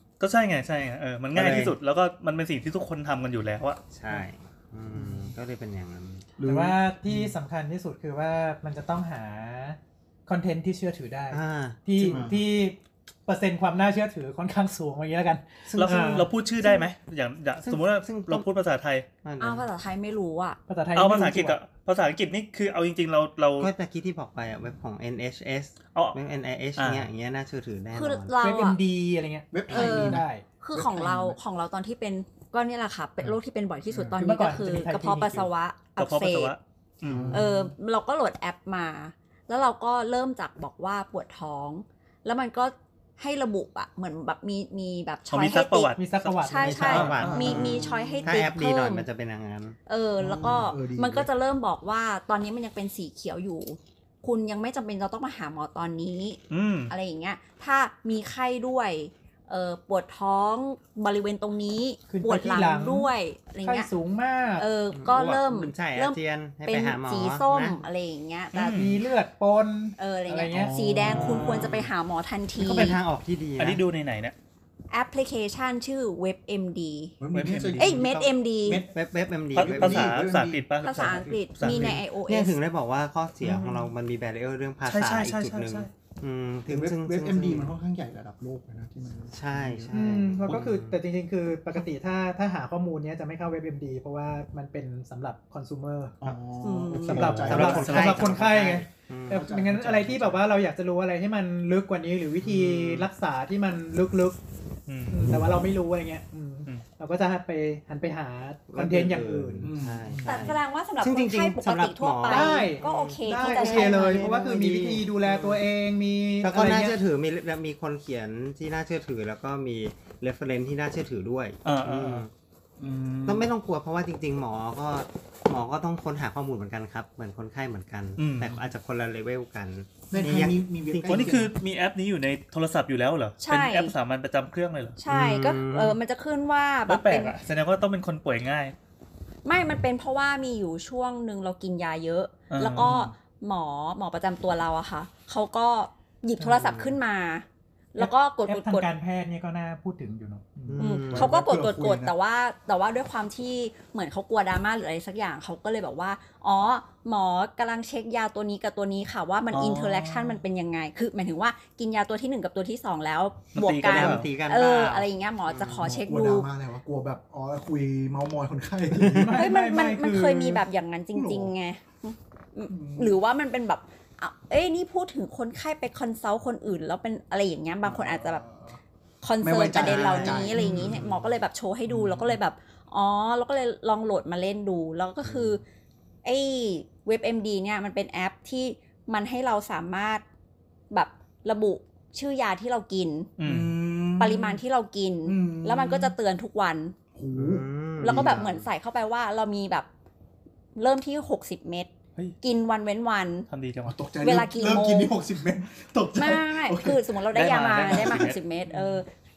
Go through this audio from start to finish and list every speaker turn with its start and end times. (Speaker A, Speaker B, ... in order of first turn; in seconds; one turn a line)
Speaker A: 0.2-3.8
Speaker B: 1.3-1.8
Speaker B: 3.9-6.3
Speaker C: 4.9-5.3
Speaker C: 6.4-7.3
Speaker D: 6.4-16.3
Speaker B: 11.3-12.2
Speaker C: 12.0-12.4
Speaker B: 15.7-16.2
Speaker A: 15.8-19.1
Speaker B: 17.6-18.5
Speaker B: 19.2-19.7
Speaker E: 19.4-20.6
Speaker D: 20.7-21.6
Speaker A: 20.9-23.7
Speaker B: 23.6-28.3
Speaker A: 26.8-27.1
Speaker E: 27.9-28.8
Speaker D: 28.4-30.4
Speaker C: 29.5-31.4
Speaker E: 29.7-36.6
Speaker C: 33.9-34.2
Speaker D: 34.2-35.5
Speaker A: 36.0-37.4
Speaker C: 37.1-37.7
Speaker E: 37.3-49.1
Speaker A: 45.3-47.6
Speaker D: 46.0-47.1
Speaker B: 46.6-49.8
Speaker C: 47.2-48.4
Speaker E: 49.9-63.9
Speaker C: 50.2-51.3
Speaker A: 56.5-56.9
Speaker D: 62.1-63.1
Speaker D: 63.6-64.7
Speaker E: 64.6-68.8
Speaker B: 64.9-67.8
Speaker A: 68.5-69.0
Speaker D: 68.7-70.8
Speaker E: 70.0-73.0
Speaker C: 70.5-71.8
Speaker B: 71.0-71.8
Speaker B: 72.6-73.8
Speaker A: 73.6-74.3
Speaker E: 74.9-77.2
Speaker C: 77.2-78.9
Speaker A: 77.3-78.0
Speaker E: 77.8-78.8
Speaker B: 78.7-80.2
Speaker C: 79.5-82.0
Speaker A: 79.5-82.0
Speaker E: 80.8-82.5
Speaker B: 81.7-87.8
Speaker A: 83.4-83.9
Speaker A: 84.9-85.9
Speaker C: 86.7-90.2
Speaker B: 89.3-91.0
Speaker D: 89.9-96.2
Speaker C: 96.2-100.4
Speaker E: 96.6-97.3
Speaker A: 97.1-98.4
Speaker D: 97.1-104.4
Speaker B: 97.4-99.5
Speaker B: 102.4-103.1
Speaker A: 104.9-105.3
Speaker D: 105.1-109.7
Speaker B: 108.7-115.6
Speaker C: 109.6-110.5
Speaker E: 110.2-114.3
Speaker D: 112.3-117.0
Speaker B: 116.4-122.3
Speaker A: 121.7-122.2
Speaker C: 122.8-123.5
Speaker B: 123.2-131.4
Speaker A: 128.2-128.6
Speaker C: 130.1-131.5
Speaker A: 131.1-135.0
Speaker E: 133.4-133.9
Speaker E: 135.0-137.4
Speaker B: 135.1-136.0
Speaker A: 136.9-138.8
Speaker E: 139.4-148.9
Speaker A: 142.5-143.0
Speaker C: 142.8-143.1
Speaker B: 146.4-147.0
Speaker D: 148.0-150.9
Speaker B: 150.7-151.3
Speaker E: 150.8-166.5
Speaker C: 151.1-152.1
Speaker C: 159.5-160.4
Speaker A: 163.5-164.3
Speaker B: 163.6-165.9
Speaker C: 165.7-169.5
Speaker B: 168.9-169.4
Speaker D: 169.1-170.6
Speaker E: 169.3-178.4
Speaker C: 171.1-171.5
Speaker C: 172.7-173.2
Speaker C: 177.8-178.8
Speaker E: 179.2-185.6
Speaker C: 179.4-181.2
Speaker B: 179.7-181.3
Speaker C: 181.9-182.4
Speaker B: 185.2-185.5
Speaker E: 186.2-190.2
Speaker E: 190.9-193.3
Speaker A: 193.4-193.8
Speaker C: 193.4-194.6
Speaker E: 194.2-196.9
Speaker C: 195.2-196.2
Speaker C: 197.2-198.7
Speaker B: 197.3-198.7
Speaker E: 198.0-199.9
Speaker E: 200.8-203.5
Speaker A: 203.5-204.0
Speaker C: 203.9-207.1
Speaker E: 204.2-205.2
Speaker E: 206.2-209.1
Speaker A: 207.3-208.4
Speaker C: 207.9-208.3